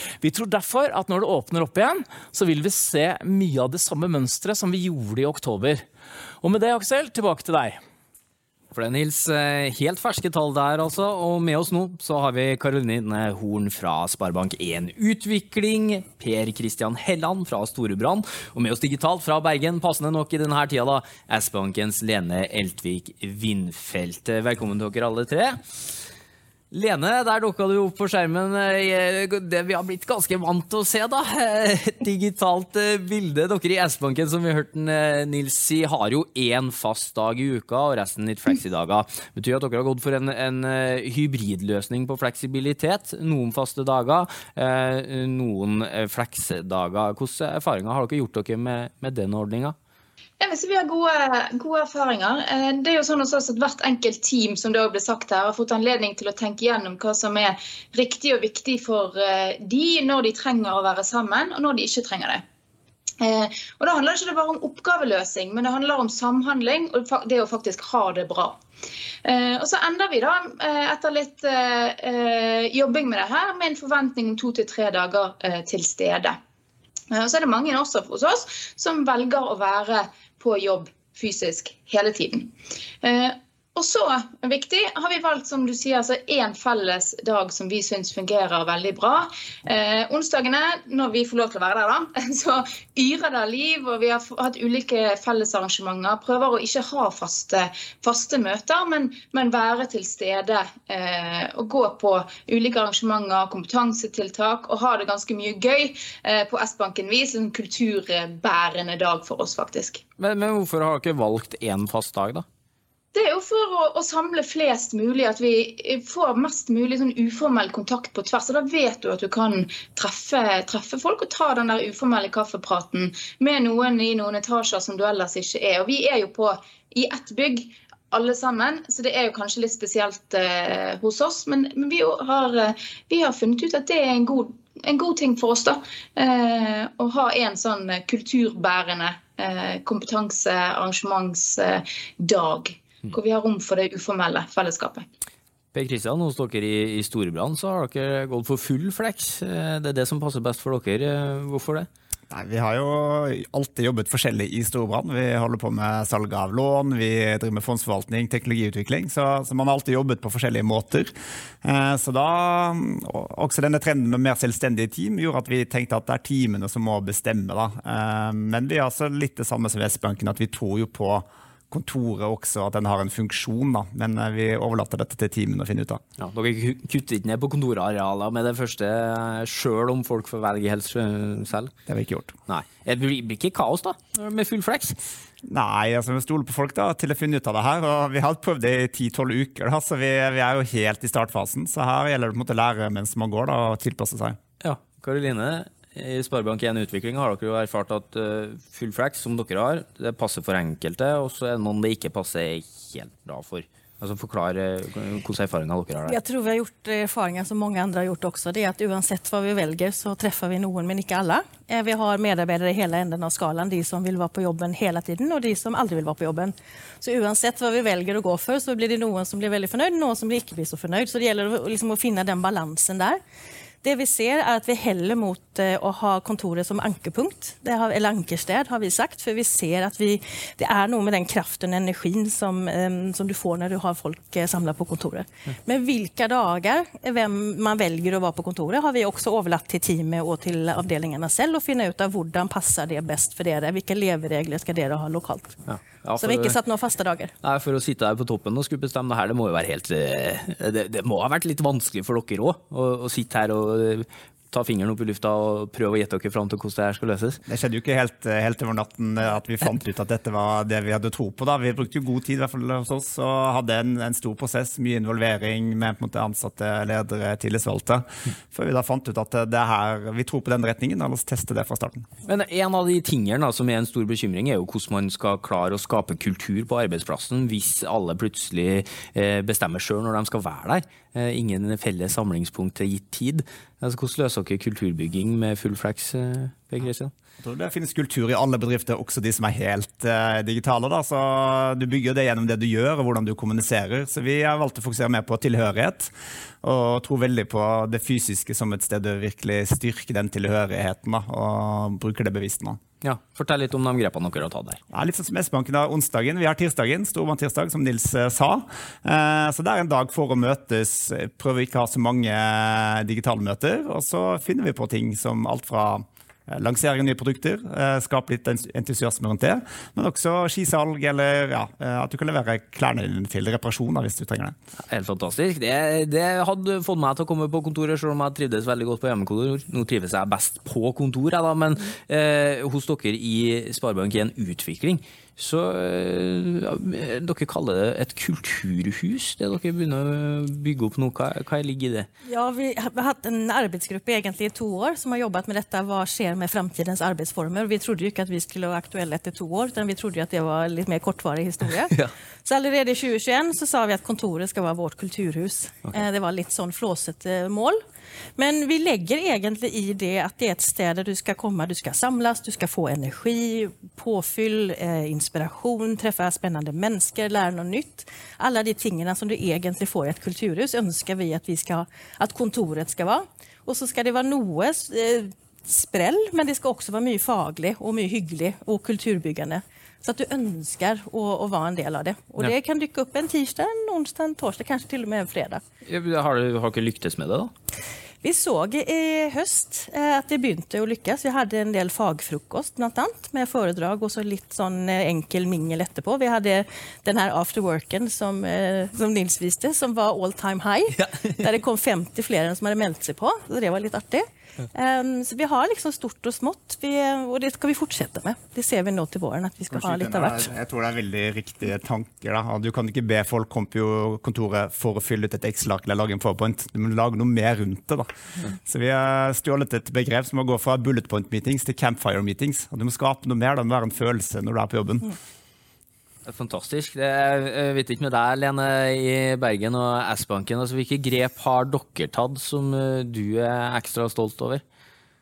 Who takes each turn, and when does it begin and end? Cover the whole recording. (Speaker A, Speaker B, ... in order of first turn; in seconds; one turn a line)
Speaker A: 0.2-5.8
Speaker A: 6.4-7.8
Speaker B: 8.7-25.6
Speaker B: 26.7-49.8
Speaker C: 50.4-62.4
Speaker C: 63.2-68.6
Speaker C: 69.2-76.4
Speaker C: 77.1-110.0
Speaker B: 110.2-112.4
Speaker C: 113.1-145.0
Speaker B: 145.7-151.9
Speaker D: 152.3-176.0
Speaker B: 176.2-181.7
Speaker D: 181.9-182.3
Speaker B: 182.5-185.0
Speaker D: 185.4-194.4
Speaker B: 194.6-206.2
Speaker E: 206.1-223.2
Speaker E: 223.8-245.6
Speaker B: 245.7-246.6
Speaker E: 246.2-247.3
Speaker B: 247.4-257.4
Speaker D: 257.5-272.1
Speaker B: 272.2-287.1
Speaker D: 287.4-302.8
Speaker B: 303.0-304.8
Speaker D: 304.9-324.5
Speaker B: 324.9-342.1
Speaker E: 342.3-357.8
Speaker E: 358.4-385.6
Speaker B: 385.8-387.5
Speaker E: 388.2-410.5
Speaker D: 409.7-425.2
Speaker B: 426.2-434.6